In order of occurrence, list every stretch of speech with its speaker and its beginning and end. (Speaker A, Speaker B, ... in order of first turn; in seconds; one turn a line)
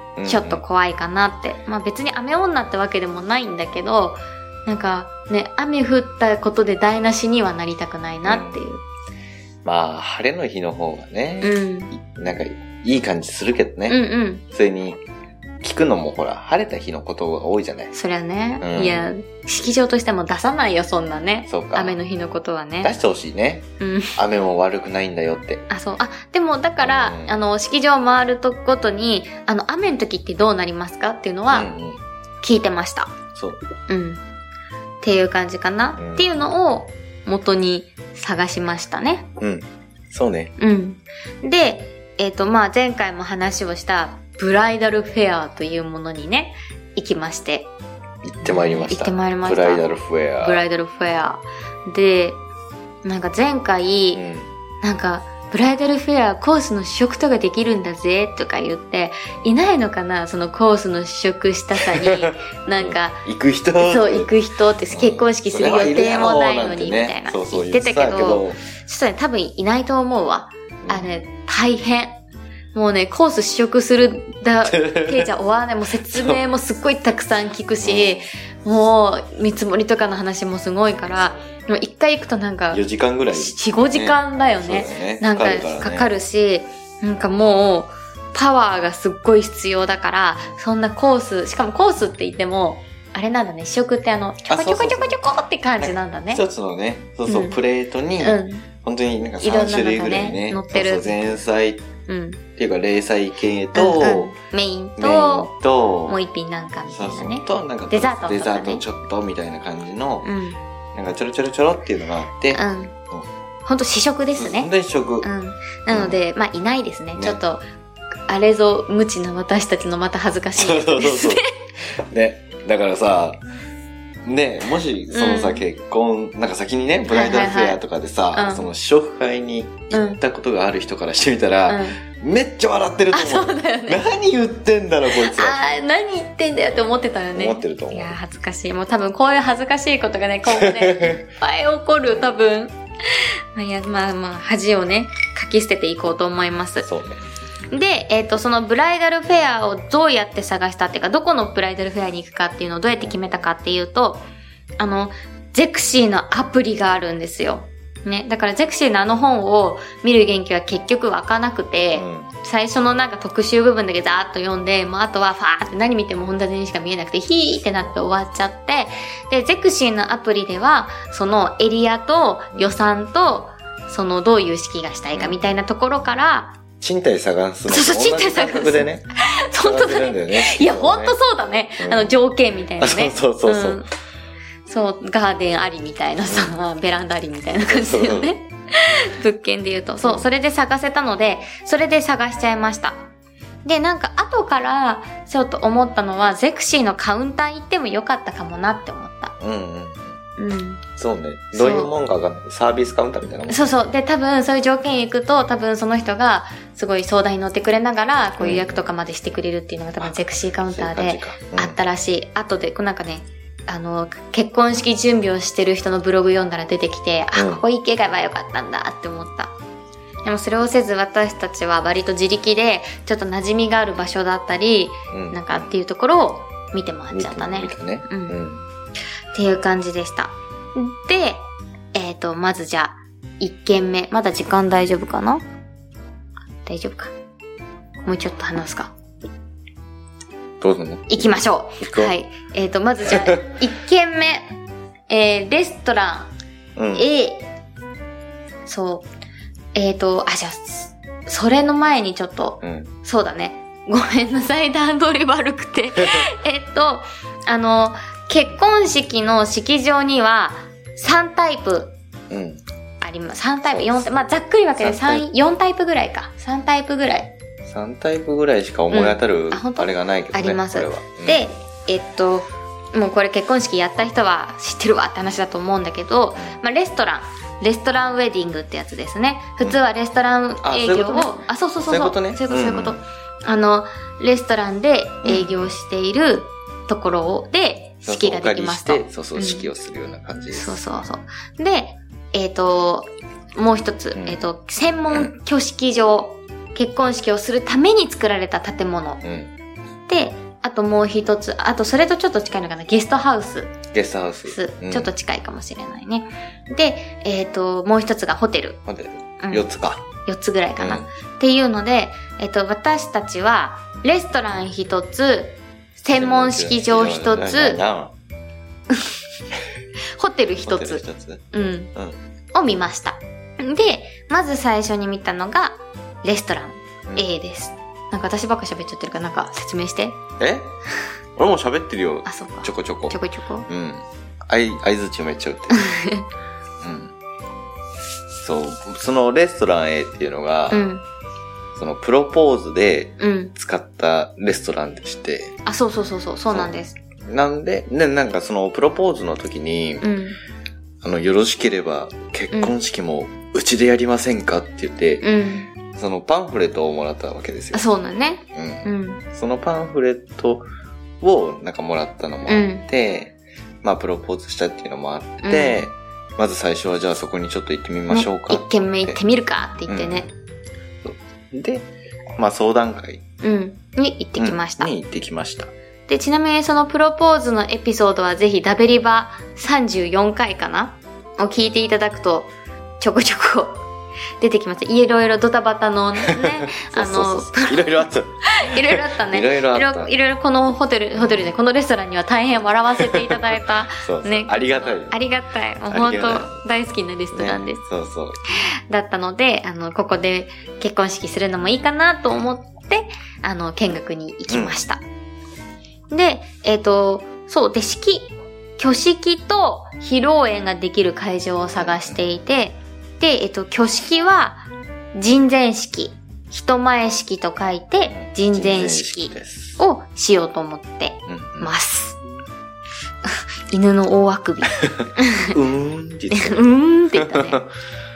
Speaker A: 0.1-0.6
Speaker B: 0.2-8.8
Speaker A: 8.2-8.6
Speaker A: 9.6-15.0
Speaker B: 11.4-11.9
Speaker B: 13.9-14.4
Speaker A: 15.6-17.9
Speaker B: 17.9-22.9
Speaker A: 18.6-19.1
Speaker A: 21.5-22.0
Speaker A: 22.8-23.6
Speaker B: 23.8-24.2
Speaker A: 24.2-25.6
Speaker B: 25.7-31.7
Speaker A: 26.8-27.4
Speaker A: 31.5-32.0
Speaker B: 32.4-33.2
Speaker B: 33.9-34.2
Speaker B: 35.0-39.3
Speaker A: 36.0-36.3
Speaker A: 39.4-40.5
Speaker B: 40.6-47.7
Speaker A: 48.2-50.6
Speaker B: 48.4-49.8
Speaker B: 50.4-52.4
Speaker B: 53.0-54.2
Speaker A: 54.1-54.5
Speaker B: 54.8-63.2
Speaker A: 61.8-64.3
Speaker B: 63.8-72.1
Speaker A: 64.9-68.6
Speaker A: 70.8-71.1
Speaker B: 72.7-82.8
Speaker A: 74.6-75.3
Speaker A: 76.1-76.4
Speaker A: 77.8-78.2
Speaker A: 82.7-86.1
Speaker B: 83.3-96.4
Speaker A: 94.5-95.2
Speaker A: 95.8-101.8
Speaker B: 97.3-97.6
Speaker B: 98.2-98.7
Speaker B: 99.4-101.4
Speaker B: 102.1-102.4
Speaker A: 102.6-104.3
Speaker B: 103.7-105.5
Speaker A: 105.0-106.2
Speaker B: 106.1-108.8
Speaker A: 106.9-110.3
Speaker B: 110.2-110.6
Speaker A: 110.9-113.3
Speaker B: 112.5-112.9
Speaker B: 113.7-114.7
Speaker A: 114.3-115.3
Speaker B: 115.2-117.6
Speaker A: 115.9-116.2
Speaker B: 118.3-121.5
Speaker A: 120.5-123.4
Speaker A: 124.2-135.6
Speaker B: 125.1-125.6
Speaker B: 127.1-127.8
Speaker B: 128.3-128.7
Speaker B: 129.9-130.2
Speaker B: 131.7-132.0
Speaker B: 133.1-134.0
Speaker B: 135.1-146.9
Speaker A: 136.7-138.2
Speaker A: 140.4-141.2
Speaker A: 146.8-147.2
Speaker B: 147.7-154.2
Speaker A: 153.0-153.4
Speaker B: 154.8-176.6
Speaker A: 161.9-162.3
Speaker A: 172.5-172.8
Speaker A: 175.1-175.5
Speaker A: 176.8-179.0
Speaker B: 177.7-183.9
Speaker A: 179.6-181.2
Speaker A: 181.8-182.1
Speaker A: 182.8-183.8
Speaker B: 184.7-193.1
Speaker A: 186.2-186.6
Speaker A: 187.6-188.3
Speaker A: 190.0-190.3
Speaker B: 193.6-199.3
Speaker A: 199.4-200.2
Speaker B: 200.4-200.8
Speaker A: 201.0-203.8
Speaker B: 201.5-201.9
Speaker B: 203.5-219.5
Speaker A: 208.4-208.9
Speaker A: 210.7-211.8
Speaker A: 217.3-217.6
Speaker B: 220.2-228.4
Speaker A: 225.1-225.8
Speaker A: 227.1-228.6
Speaker B: 229.3-235.4
Speaker B: 236.6-237.1
Speaker B: 238.0-238.9
Speaker A: 240.6-242.1
Speaker B: 241.1-244.5
Speaker A: 243.0-243.4
Speaker B: 245.1-246.3
Speaker A: 246.8-247.1
Speaker B: 246.9-247.5
Speaker B: 248.7-249.1
Speaker B: 249.7-261.9
Speaker A: 252.6-252.9
Speaker A: 256.0-256.3
Speaker A: 262.3-262.6
Speaker B: 263.0-267.3
Speaker A: 263.7-264.1
Speaker A: 264.8-265.2
Speaker A: 267.6-271.4
Speaker B: 268.9-289.7
Speaker A: 280.6-283.0
Speaker A: 285.2-285.7
Speaker A: 288.0-290.8
Speaker B: 290.5-299.2
Speaker A: 294.1-294.4
Speaker A: 299.2-299.5
Speaker B: 300.1-303.8
Speaker A: 303.9-305.1
Speaker B: 304.4-308.8
Speaker A: 308.9-310.0
Speaker B: 309.4-309.7
Speaker B: 310.2-317.8
Speaker A: 310.8-311.1
Speaker A: 316.1-318.1
Speaker B: 320.2-321.9
Speaker A: 320.6-322.2
Speaker B: 322.5-330.2
Speaker A: 330.4-330.7
Speaker A: 331.4-335.8
Speaker B: 332.2-333.7
Speaker B: 335.7-336.2
Speaker A: 336.8-337.1
Speaker A: 338.4-340.8
Speaker B: 340.7-341.0
Speaker A: 341.7-345.6
Speaker B: 343.2-343.5
Speaker B: 345.6-347.0
Speaker A: 346.5-350.1
Speaker B: 350.0-350.4
Speaker A: 351.0-355.2
Speaker B: 355.2-355.7
Speaker A: 355.9-357.9
Speaker B: 357.7-359.2
Speaker A: 358.5-360.6
Speaker A: 361.2-369.2
Speaker B: 362.5-362.9
Speaker B: 365.4-365.9
Speaker B: 368.1-370.3
Speaker A: 369.9-370.3
Speaker A: 371.0-373.2
Speaker B: 373.4-374.9
Speaker A: 374.4-375.7
Speaker B: 376.1-383.8
Speaker B: 384.4-397.8
Speaker A: 386.2-390.1
Speaker A: 391.1-391.5
Speaker A: 393.0-395.1
Speaker A: 395.9-396.5
Speaker A: 397.3-398.4
Speaker B: 398.9-405.0
Speaker A: 404.5-404.9
Speaker B: 406.1-422.2
Speaker A: 411.8-412.2
Speaker A: 418.1-419.8
Speaker A: 421.3-421.7
Speaker B: 423.3-425.6
Speaker A: 424.8-427.7
Speaker B: 426.3-427.6